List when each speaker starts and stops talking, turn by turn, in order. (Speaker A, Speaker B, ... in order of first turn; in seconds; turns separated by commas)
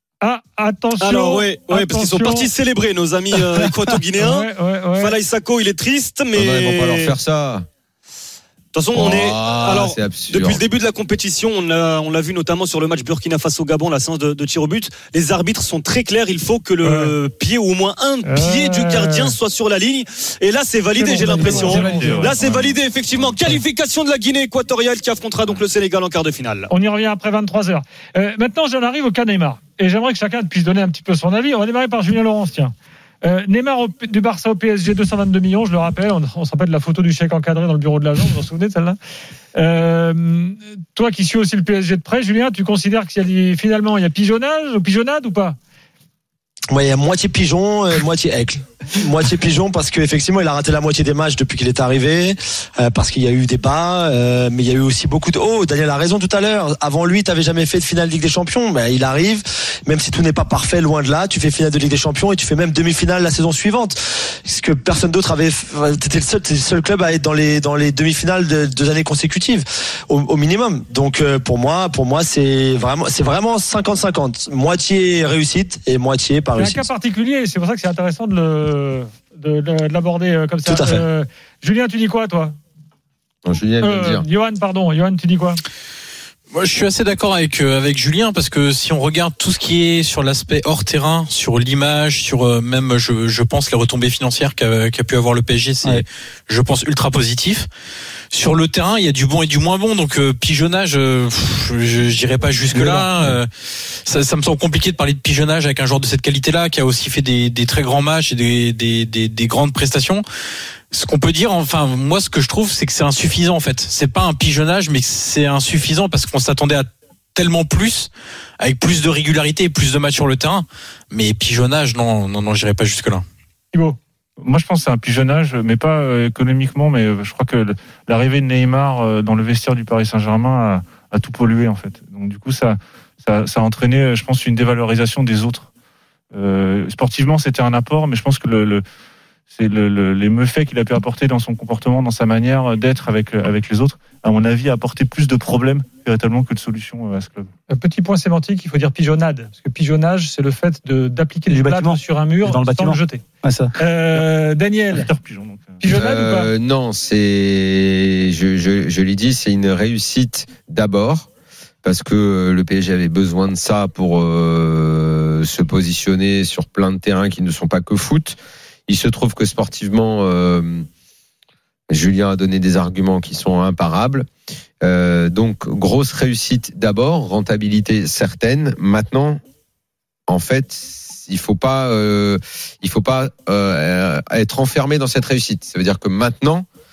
Speaker A: 0.2-2.5, Speaker B: 1.0-7.1, Speaker A: 4.2-5.2, Speaker C: 6.3-7.7, Speaker B: 8.7-26.7, Speaker C: 8.9-10.6, Speaker A: 16.8-17.1, Speaker A: 18.2-19.4, Speaker A: 20.9-22.3, Speaker D: 21.3-22.8, Speaker E: 21.4-22.3, Speaker A: 26.7-39.0, Speaker A: 39.5-45.6, Speaker F: 46.7-76.9, Speaker A: 76.6-82.6, Speaker F: 80.7-81.0, Speaker C: 83.5-84.3, Speaker A: 83.8-85.6, Speaker G: 86.5-97.7, Speaker G: 98.3-103.5, Speaker E: 102.7-103.4, Speaker G: 104.0-110.2, Speaker G: 110.9-118.1, Speaker G: 118.6-123.2, Speaker A: 123.7-124.0, Speaker D: 124.4-135.7, Speaker D: 136.3-138.8, Speaker D: 139.5-147.5, Speaker A: 147.7-153.2, Speaker E: 151.5-153.7, Speaker A: 153.8-155.1, Speaker D: 154.9-155.9, Speaker A: 155.8-156.5, Speaker C: 155.9-161.3, Speaker C: 161.8-170.9, Speaker C: 171.9-174.3, Speaker C: 174.8-179.4, Speaker C: 180.3-186.7